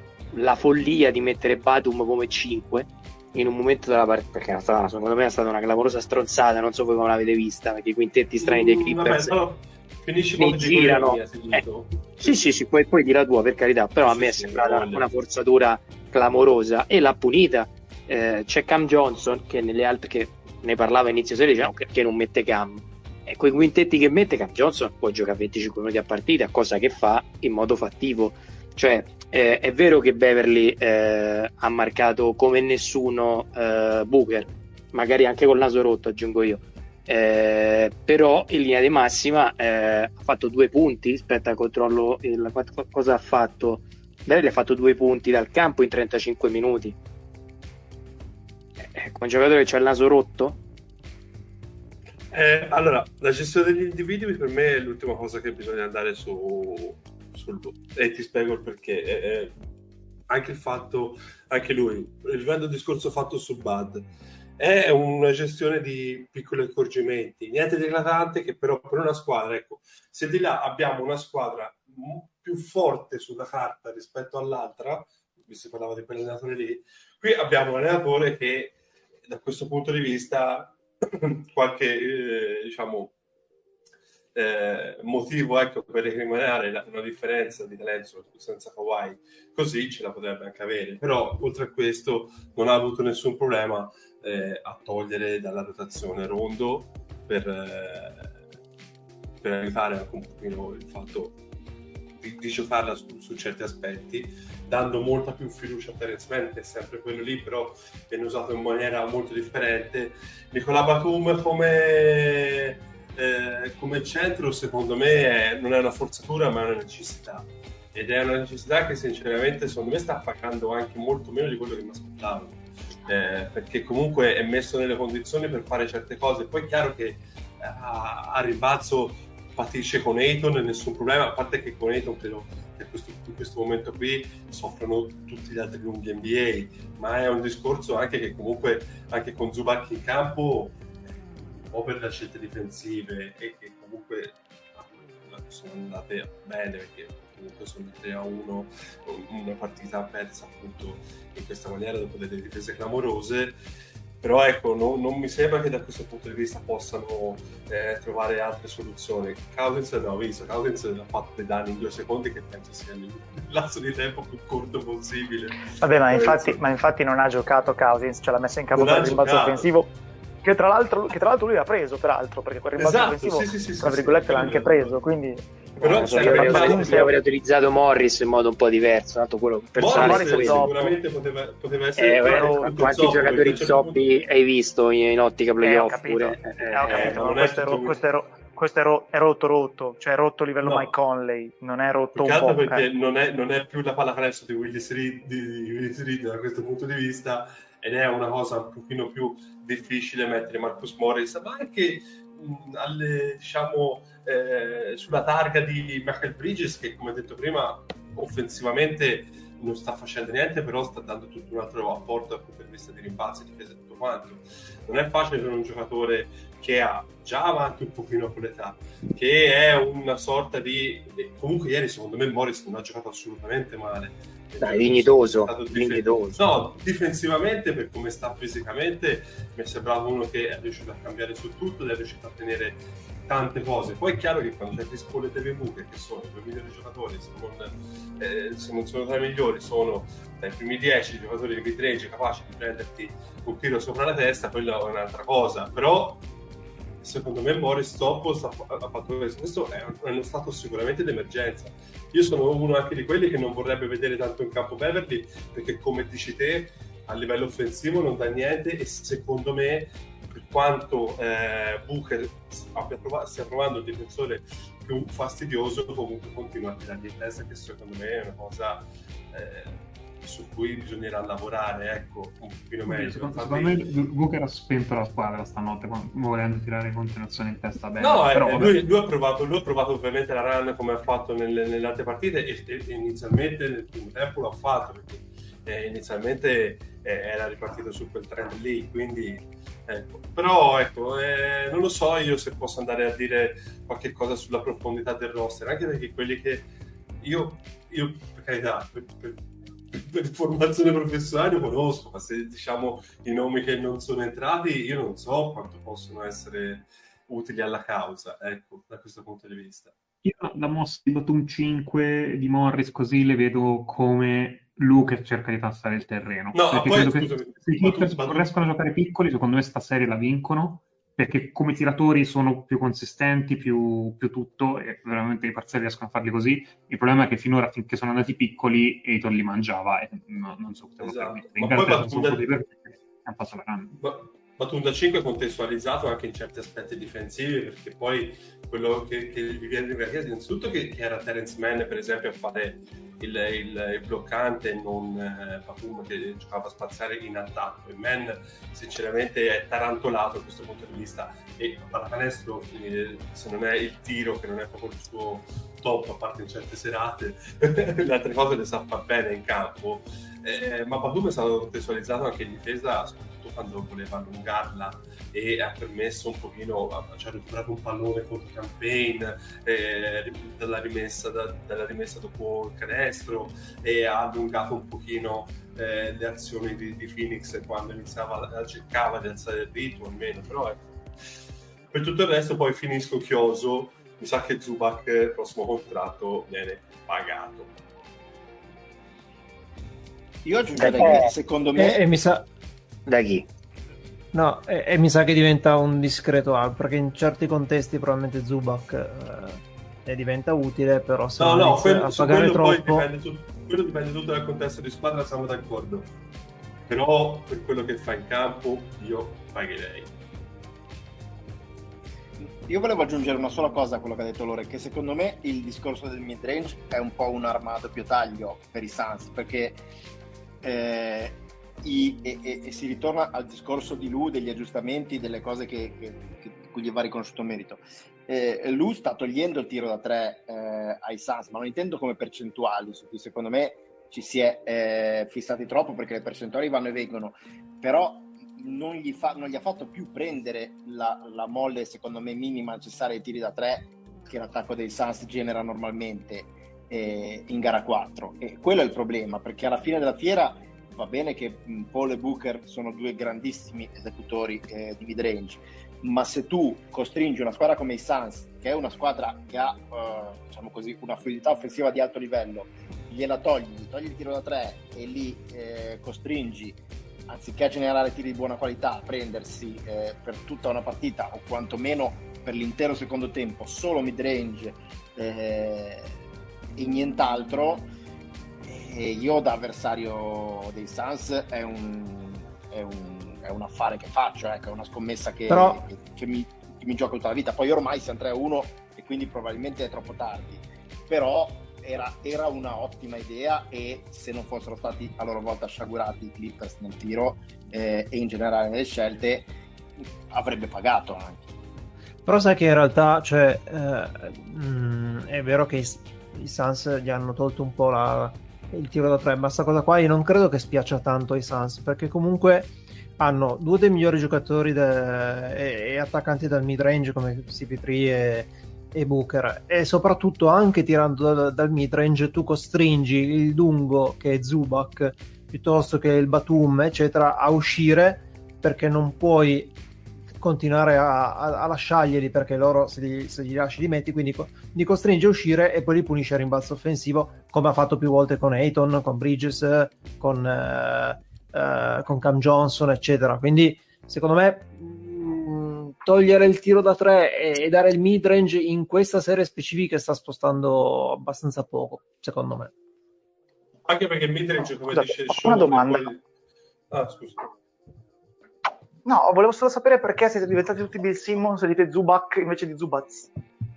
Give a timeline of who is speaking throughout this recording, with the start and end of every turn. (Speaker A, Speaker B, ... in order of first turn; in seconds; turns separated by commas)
Speaker A: 0.3-9.4, Speaker B: 8.4-12.4, Speaker A: 10.4-11.6, Speaker A: 12.2-47.0, Speaker B: 14.0-15.1, Speaker A: 48.9-50.6, Speaker B: 52.3-59.5, Speaker B: 60.3-64.1, Speaker B: 64.6-78.8, Speaker B: 79.3-83.2, Speaker B: 84.3-98.3, Speaker B: 99.4-101.4, Speaker B: 102.2-140.8, Speaker B: 141.7-153.6, Speaker B: 154.2-166.6, Speaker C: 165.7-175.5, Speaker B: 168.7-169.7, Speaker B: 172.8-175.0, Speaker B: 175.8-177.2, Speaker A: 175.8-180.7, Speaker C: 176.1-177.2, Speaker B: 179.8-184.0, Speaker C: 179.8-181.0, Speaker A: 182.0-187.2, Speaker C: 182.3-182.8, Speaker C: 185.6-192.9, Speaker B: 186.9-188.0, Speaker B: 190.6-190.9, Speaker B: 192.2-246.2, Speaker A: 224.6-226.4, Speaker B: 247.0-273.9, Speaker D: 272.9-278.8, Speaker B: 278.0-296.7, Speaker B: 297.2-309.9, Speaker D: 310.2-334.0, Speaker B: 316.5-318.5, Speaker B: 331.0-332.5, Speaker B: 333.9-381.0, Speaker B: 381.9-387.7, Speaker E: 390.4-392.0, Speaker A: 390.8-391.3, Speaker F: 390.8-392.5, Speaker A: 393.1-393.5, Speaker F: 394.3-403.1, Speaker B: 401.4-406.1, Speaker B: 406.9-410.1, Speaker E: 412.4-419.8, Speaker E: 420.6-476.1, Speaker E: 476.8-477.9, Speaker E: 478.6-499.5, Speaker F: 485.5-485.8, Speaker E: 500.3-501.5, Speaker F: 502.3-529.8, Speaker F: 530.4-552.7, Speaker B: 553.9-556.2, Speaker C: 554.9-556.1, Speaker B: 556.9-557.5, Speaker C: 559.1-563.3